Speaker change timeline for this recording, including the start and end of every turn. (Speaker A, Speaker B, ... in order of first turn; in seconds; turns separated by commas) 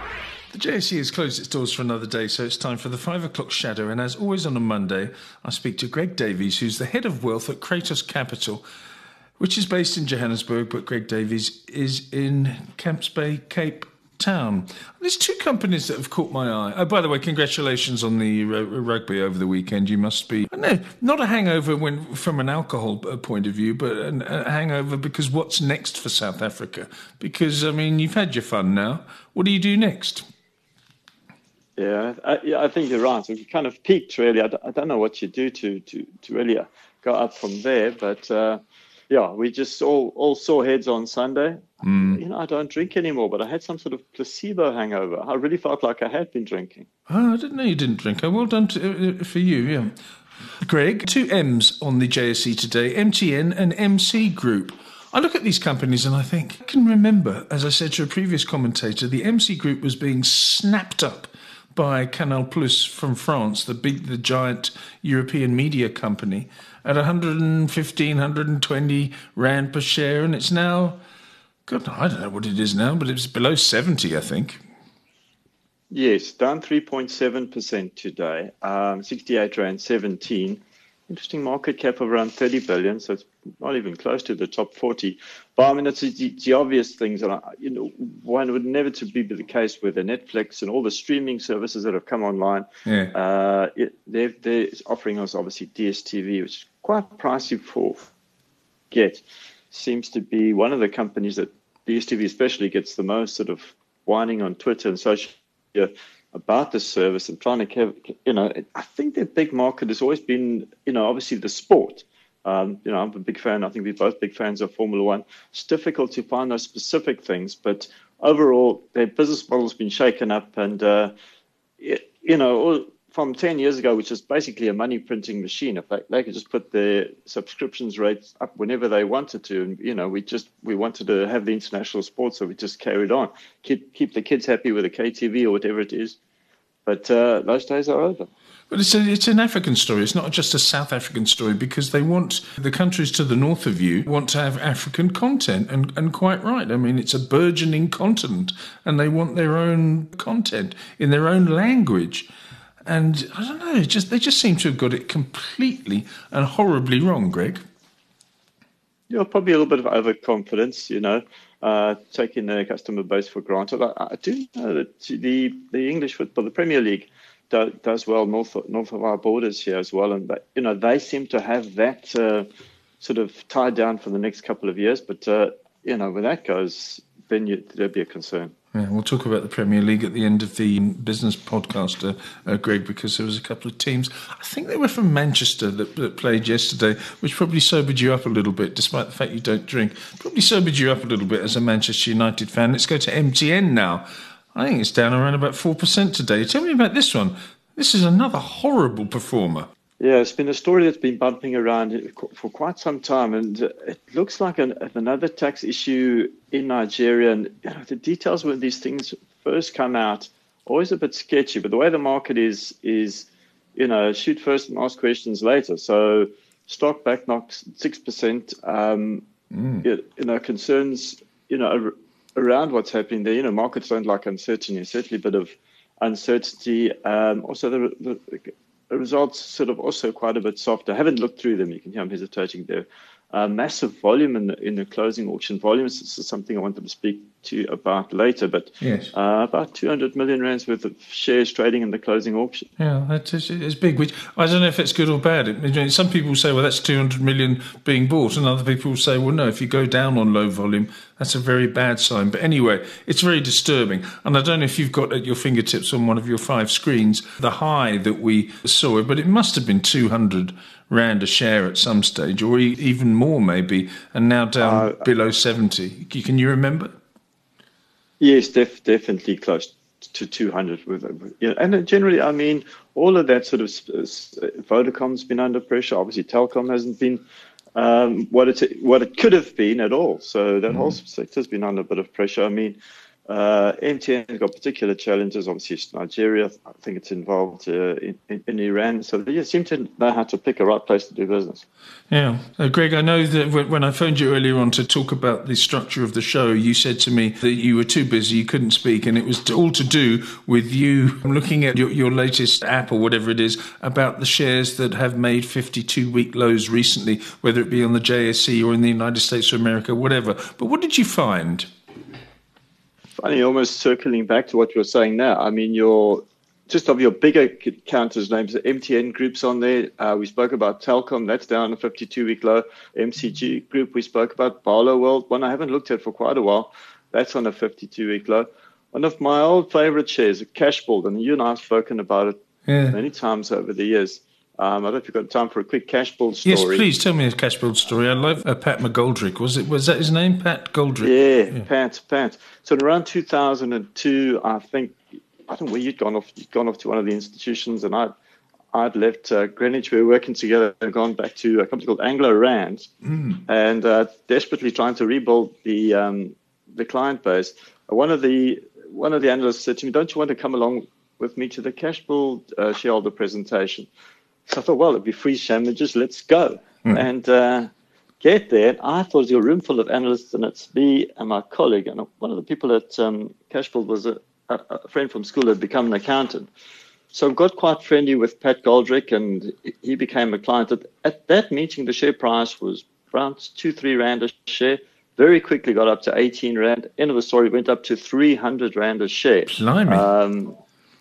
Speaker A: 0.5-8.6, Speaker A: 9.4-30.2, Speaker B: 31.8-46.9, Speaker A: 41.8-42.2, Speaker A: 47.1-49.9, Speaker A: 50.6-71.0, Speaker A: 71.7-74.6, Speaker B: 75.9-98.1, Speaker A: 92.9-93.1, Speaker B: 98.9-121.1, Speaker B: 121.8-136.2, Speaker B: 136.9-138.3, Speaker A: 138.7-152.3, Speaker A: 152.9-157.6, Speaker B: 159.1-172.5, Speaker B: 173.0-178.5, Speaker A: 178.7-194.0, Speaker A: 194.6-199.7, Speaker B: 200.0-219.3, Speaker A: 219.6-219.8, Speaker B: 219.8-242.7, Speaker A: 238.8-239.1, Speaker A: 242.8-266.9, Speaker B: 264.6-265.0, Speaker B: 268.2-277.2, Speaker B: 277.8-291.6, Speaker A: 292.1-311.7, Speaker B: 313.2-332.4, Speaker A: 332.7-333.0, Speaker B: 332.9-336.9, Speaker A: 336.4-341.6, Speaker B: 341.0-348.1, Speaker B: 348.7-352.9, Speaker B: 353.4-363.9, Speaker B: 364.5-367.7, Speaker B: 368.2-376.5, Speaker B: 377.1-390.6, Speaker A: 389.5-390.1